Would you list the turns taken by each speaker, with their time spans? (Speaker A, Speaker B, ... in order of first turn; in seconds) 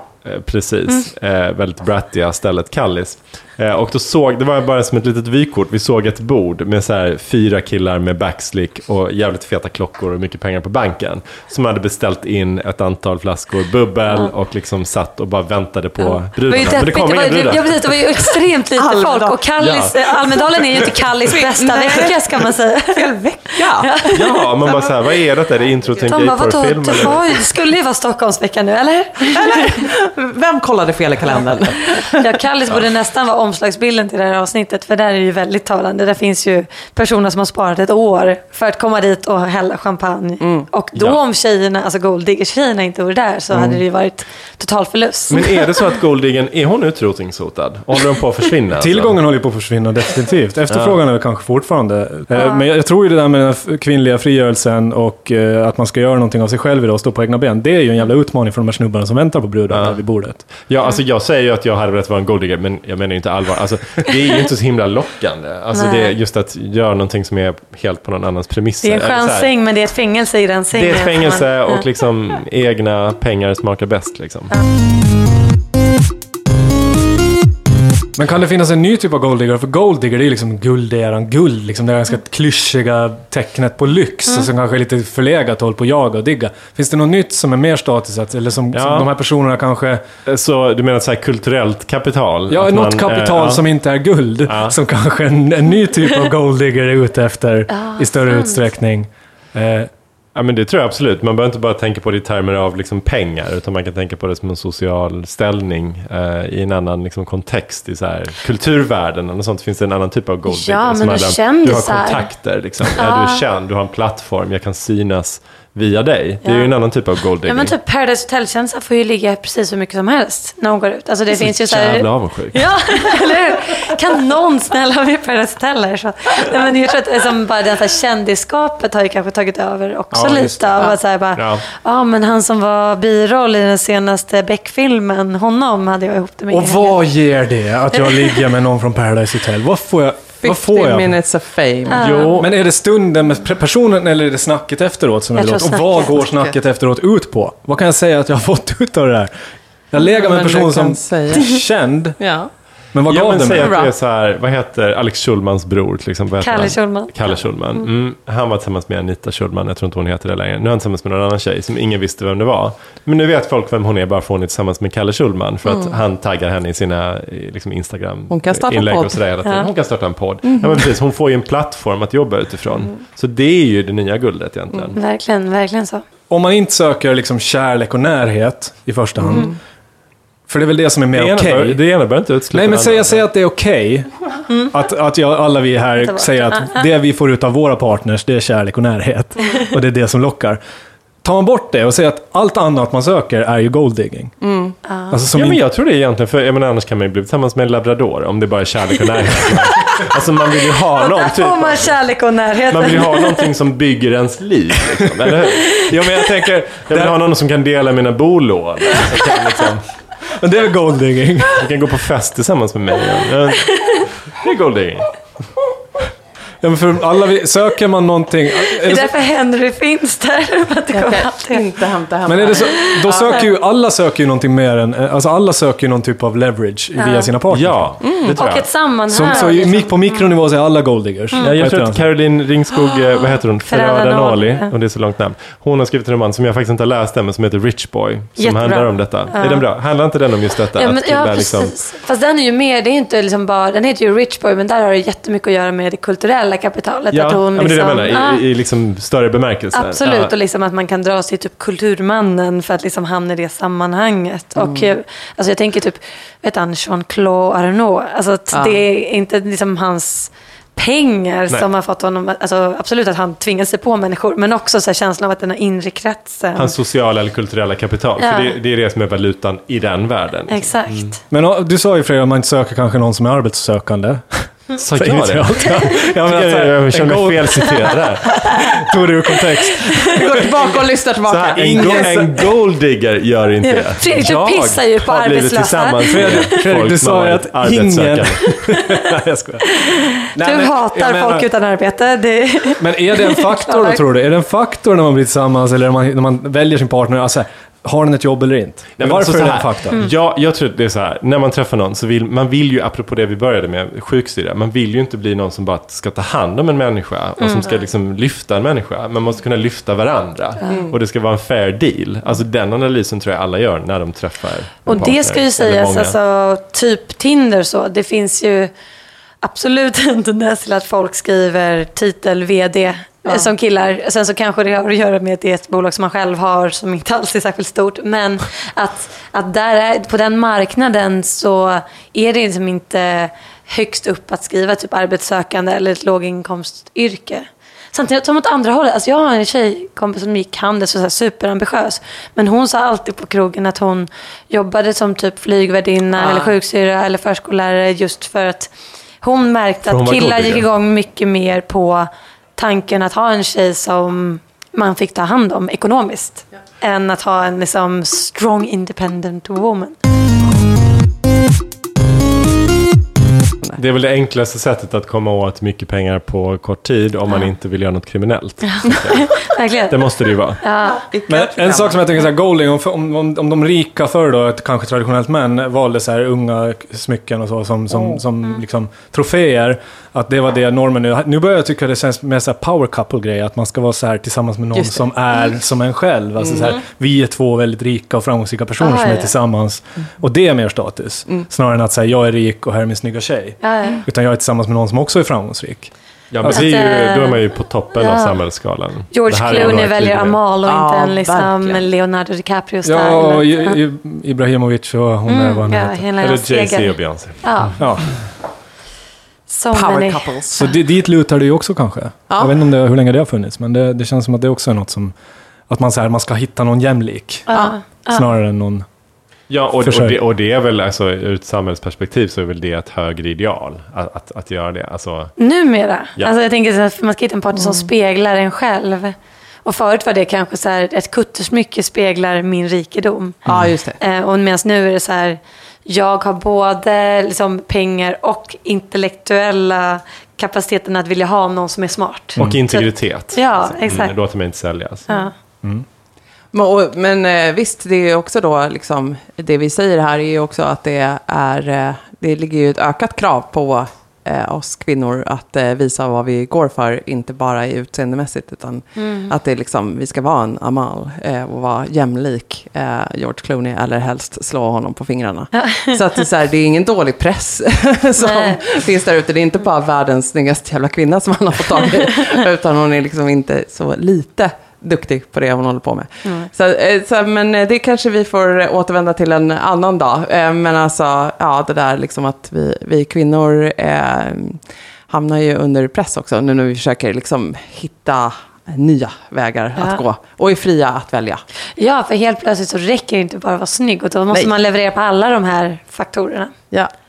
Speaker A: 0.2-18.3, 19.6-19.9, 24.1-27.5, 41.0-41.2, 45.3-49.2, 50.7-51.0, 59.7-69.5, 70.7-74.5, 88.7-89.1, 90.3-93.6, 94.5-94.8, 100.3-117.7, 121.4-122.9, 131.4-131.6, 141.9-142.5, 153.1-175.0, 181.1-183.2, 195.3-202.2, 202.7-205.9, 206.9-209.9, 211.5-215.2, 227.5-228.7, 231.4-241.8, 247.1-250.3, 266.6-271.1, 274.8-278.7, 281.3-288.6, 299.0-316.1, 349.9-350.7, 363.8-370.6, 396.3-400.4, 406.2-407.8, 419.5-425.3, 442.4-445.1
Speaker B: 16.0-24.4, 26.0-29.8, 31.9-45.7, 52.3-52.7, 65.7-66.2, 68.8-71.8, 97.7-98.7, 110.5-112.3, 113.0-113.4, 116.4-116.8, 117.5-137.0, 137.9-138.4, 141.9-142.4, 145.3-146.2, 156.4-157.8, 175.0-176.0, 186.0-186.8, 194.8-195.2, 200.9-203.5, 213.7-214.1, 218.7-221.6, 222.5-223.5, 226.9-227.3, 228.4-230.3, 233.7-234.7, 238.4-239.7, 240.8-248.4, 249.7-266.7, 268.2-268.5, 270.5-271.2, 283.6-286.5, 289.8-294.0, 307.4-307.7, 314.9-318.7, 319.4-348.7, 349.2-360.0, 368.7-369.9, 370.6-371.0, 388.8-389.3, 393.6-394.1, 396.5-397.4, 398.0-398.4, 399.1-403.8, 405.3-407.8, 409.5-410.3, 417.5-418.3, 425.4-433.4, 434.0-444.1, 445.1-445.3, 459.0-459.3, 465.5-466.0, 468.2-468.6, 476.2-476.5, 491.8-496.5
Speaker C: 18.8-19.4, 21.2-25.1, 29.3-32.2, 40.4-40.7, 140.4-142.3, 146.2-146.6, 150.0-151.6, 152.2-152.5, 153.5-153.9, 165.7-166.0, 168.3-169.2, 170.5-170.8, 179.2-179.6, 194.4-194.8, 220.9-223.4, 228.0-228.3, 254.6-254.9, 258.5-258.8, 280.1-282.5, 310.7-311.0, 346.2-346.5, 370.9-372.0, 384.8-385.1, 386.4-386.7, 400.7-401.9, 409.7-410.6, 427.6-427.9, 433.5-434.0, 446.5-491.4
Speaker D: 43.5-43.8, 48.8-60.5, 78.2-90.0, 92.5-99.9, 130.1-130.9, 136.5-141.2, 142.4-149.3, 149.9-152.2, 152.9-153.7, 176.3-179.6, 180.5-181.8, 182.5-184.1, 184.7-190.6, 191.2-194.4, 195.1-195.6, 205.8-207.2, 210.4-211.6, 216.6-219.1, 222.3-227.9, 229.1-232.1, 271.3-280.2, 286.1-291.5, 292.8-300.0, 371.3-396.7, 402.9-406.1, 407.8-408.2, 410.6-415.1, 415.7-417.5, 418.1-418.9, 419.8-420.2